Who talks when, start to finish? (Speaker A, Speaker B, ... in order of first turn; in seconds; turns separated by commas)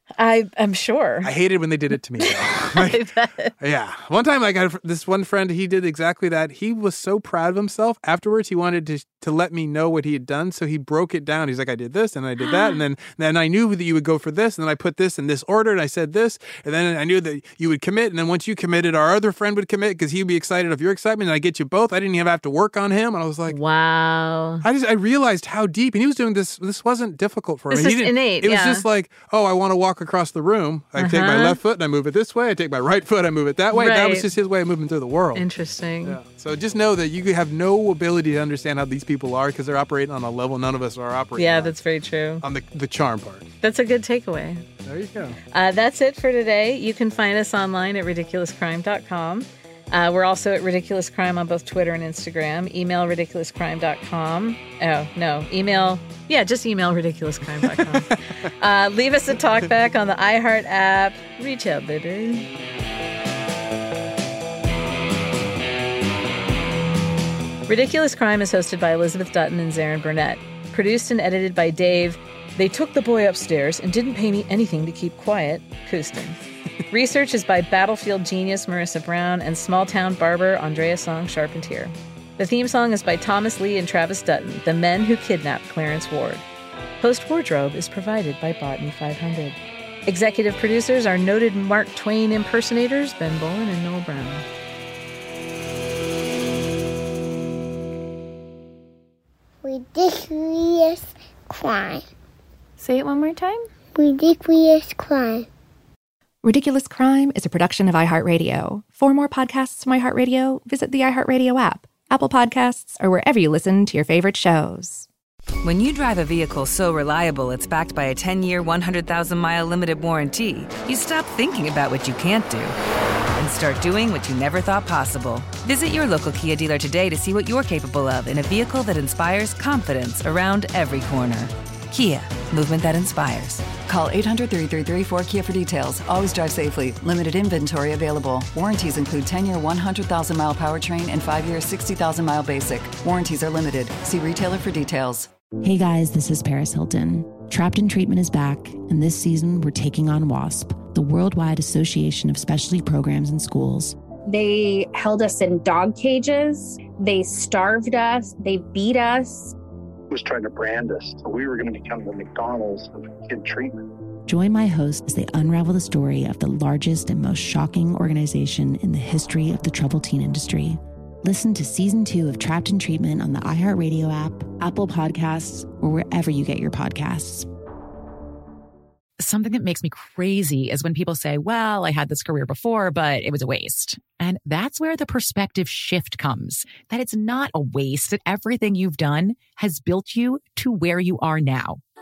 Speaker A: 0.2-1.3, Speaker B: 1.2-3.0, Speaker A: 2.2-3.5, Speaker B: 3.6-23.6, Speaker A: 12.4-12.8, Speaker A: 23.5-24.6, Speaker B: 24.6-35.4, Speaker A: 27.7-28.8, Speaker A: 31.0-31.6, Speaker A: 33.7-34.2, Speaker A: 35.3-36.2, Speaker B: 36.0-41.7, Speaker A: 41.4-42.4, Speaker B: 42.4-43.5, Speaker A: 43.6-44.6, Speaker B: 44.8-45.4, Speaker A: 45.5-62.5, Speaker B: 57.6-58.1, Speaker A: 67.7-76.4, Speaker A: 76.9-86.4, Speaker A: 87.0-94.4, Speaker C: 99.6-102.0, Speaker A: 102.9-103.4, Speaker C: 103.9-105.5, Speaker D: 106.4-115.0, Speaker E: 115.6-122.8, Speaker E: 123.4-133.7, Speaker F: 133.8-145.3, Speaker G: 145.6-153.9, Speaker H: 154.2-159.5, Speaker I: 160.1-163.8, Speaker G: 164.2-177.5, Speaker J: 179.2-191.8